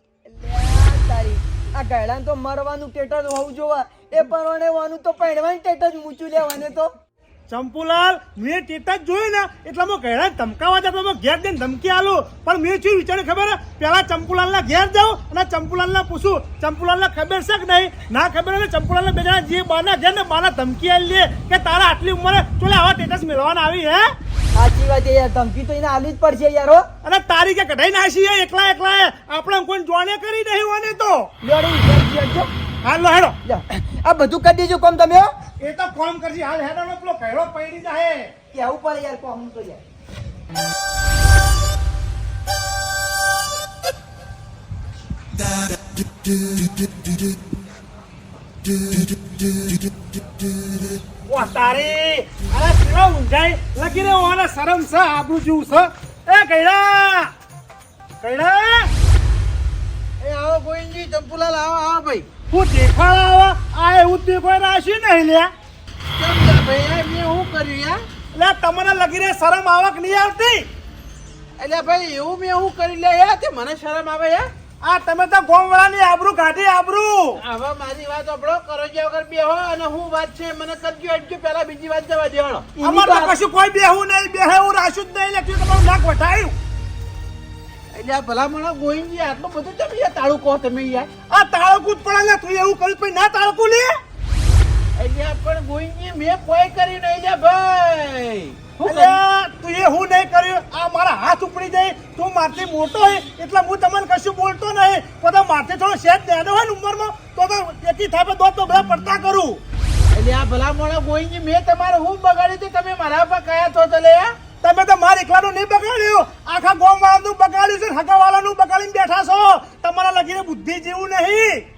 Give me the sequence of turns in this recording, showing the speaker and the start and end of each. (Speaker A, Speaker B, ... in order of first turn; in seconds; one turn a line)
Speaker A: 0.2-6.9
Speaker B: 7.5-24.1
Speaker A: 24.6-26.8
Speaker B: 27.0-31.3
Speaker A: 31.4-32.5
Speaker B: 32.8-33.4
Speaker A: 33.4-35.3
Speaker B: 35.6-38.3
Speaker A: 38.5-39.8
Speaker B: 51.3-57.3
Speaker B: 58.2-58.9
Speaker C: 60.2-62.2
Speaker B: 62.5-65.5
Speaker C: 66.2-68.0
Speaker B: 68.3-70.7
Speaker C: 71.6-74.5
Speaker B: 74.8-77.4
Speaker C: 77.4-82.7
Speaker A: 82.8-83.3
Speaker B: 82.8-86.5
Speaker C: 87.9-91.1
Speaker B: 91.3-94.0
Speaker C: 95.0-99.2
Speaker B: 98.8-109.6
Speaker C: 110.1-114.3
Speaker B: 114.6-121.6